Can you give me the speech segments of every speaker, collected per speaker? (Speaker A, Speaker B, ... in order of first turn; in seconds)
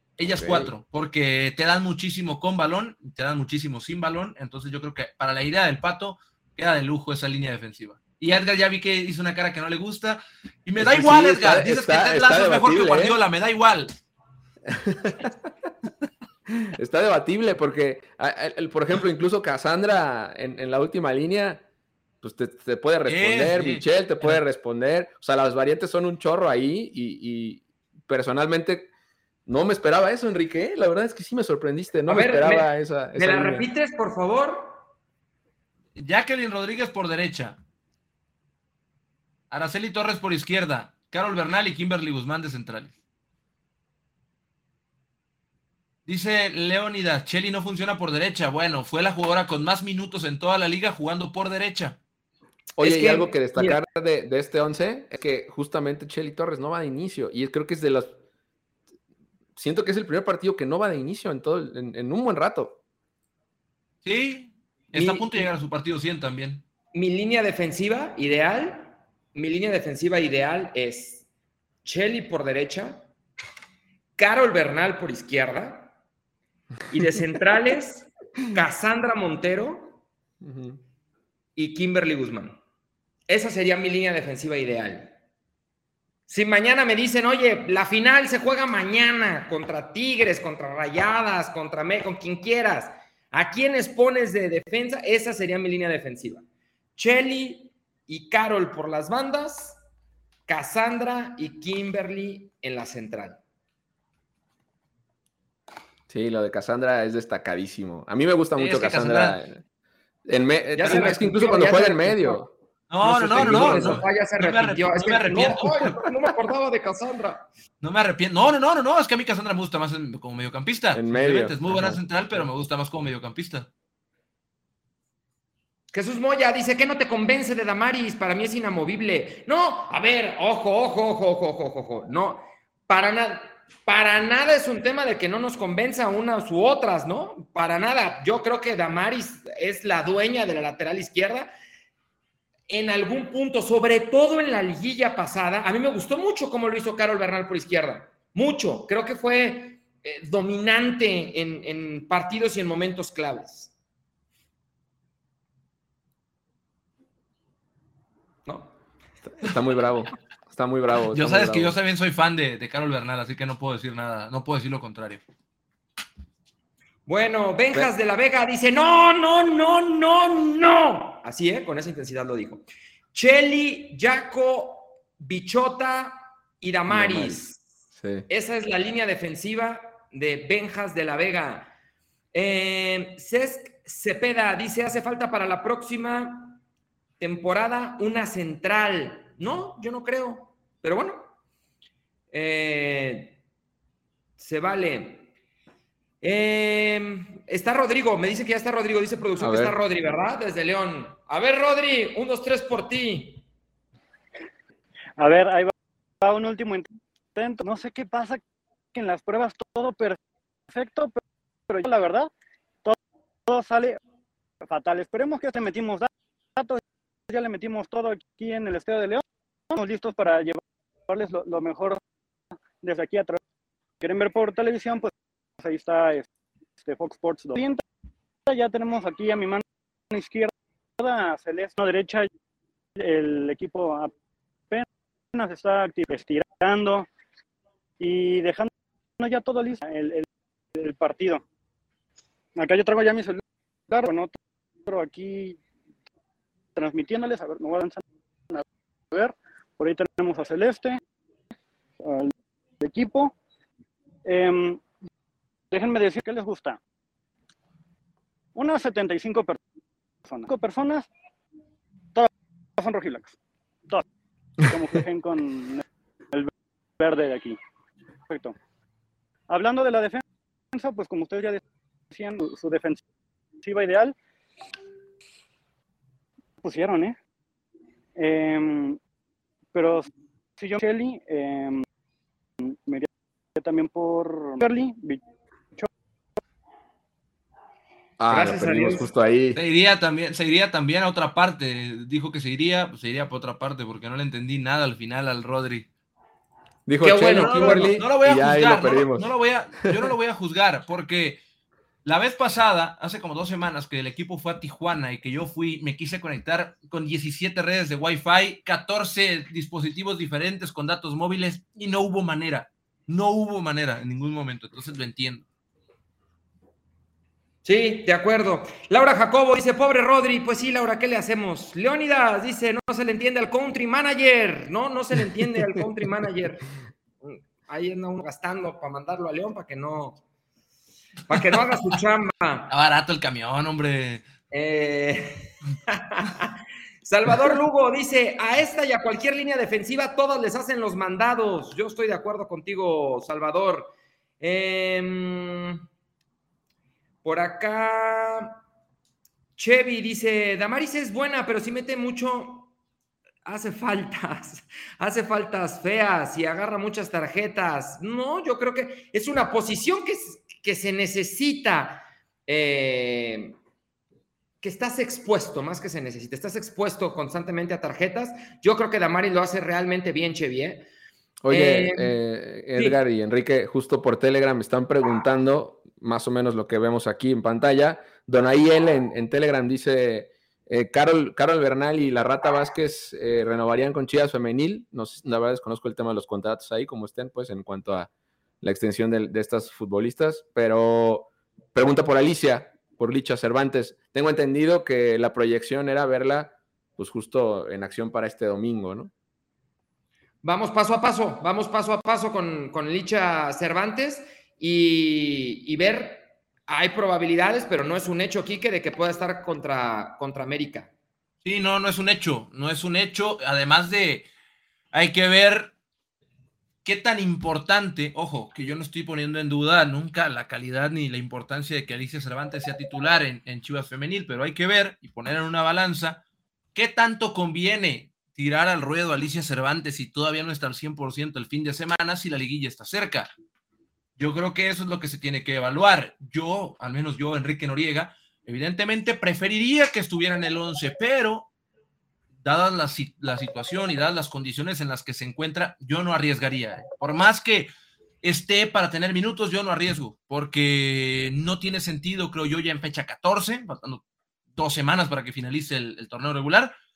Speaker A: 0.2-13.9, 23.1-24.4, 36.0-37.6, 39.5-42.9, 46.1-52.0, 64.0-66.6, 108.6-109.4, 112.9-116.0, 117.8-123.7, 161.1-165.2, 289.6-295.9, 297.3-301.4, 302.1-315.4, 332.7-334.3, 411.4-414.3, 414.9-415.7, 416.9-426.2, 426.8-433.3, 434.2-441.5, 442.4-447.7, 448.2-454.0, 454.6-456.7
Speaker B: 0.2-0.7, 10.8-13.2, 14.7-15.3, 16.6-21.6, 22.2-28.9, 29.5-33.7, 52.8-58.1, 59.6-62.8, 80.4-80.8, 106.1-109.6, 110.3-112.5, 113.0-114.0, 120.9-122.5, 159.3-161.8, 176.9-177.4, 177.9-178.3, 199.4-199.8, 288.2-289.6, 296.9-299.3, 371.4-388.1, 388.6-399.1
Speaker C: 32.1-34.8, 52.8-53.8, 64.9-65.5, 66.9-71.2, 71.8-73.0, 74.2-75.9, 76.9-80.0, 81.6-82.6, 83.3-85.1, 86.3-96.5, 97.0-99.8, 100.5-103.4, 110.7-112.4, 113.0-117.5, 125.9-141.5, 142.7-153.7, 158.5-158.7, 167.1-177.6, 178.3-181.7, 182.3-186.6, 187.2-191.3, 192.3-193.4, 194.4-195.3, 196.2-203.4, 288.3-289.1, 297.0-297.9, 317.6-326.7, 327.2-330.2, 331.3-332.7, 334.5-345.8, 347.2-348.6, 349.6-352.7, 353.4-363.6, 364.6-370.9, 371.5-372.2, 400.4-410.9
Speaker D: 205.2-208.4, 208.9-210.2, 210.7-211.2, 211.7-212.3, 212.8-214.0, 214.6-222.0, 222.8-223.4, 224.0-226.3, 226.8-227.8, 228.5-232.3, 233.0-234.1, 234.7-237.1, 238.0-241.4, 242.6-245.6, 246.8-251.0, 252.0-253.3, 254.2-254.8, 255.7-256.8, 258.6-259.6, 260.3-261.1, 262.1-263.4, 264.6-267.6, 268.3-268.6, 269.5-273.0, 273.6-274.2, 276.6-277.2, 278.2-279.0, 279.7-280.1, 280.6-281.9, 282.6-285.2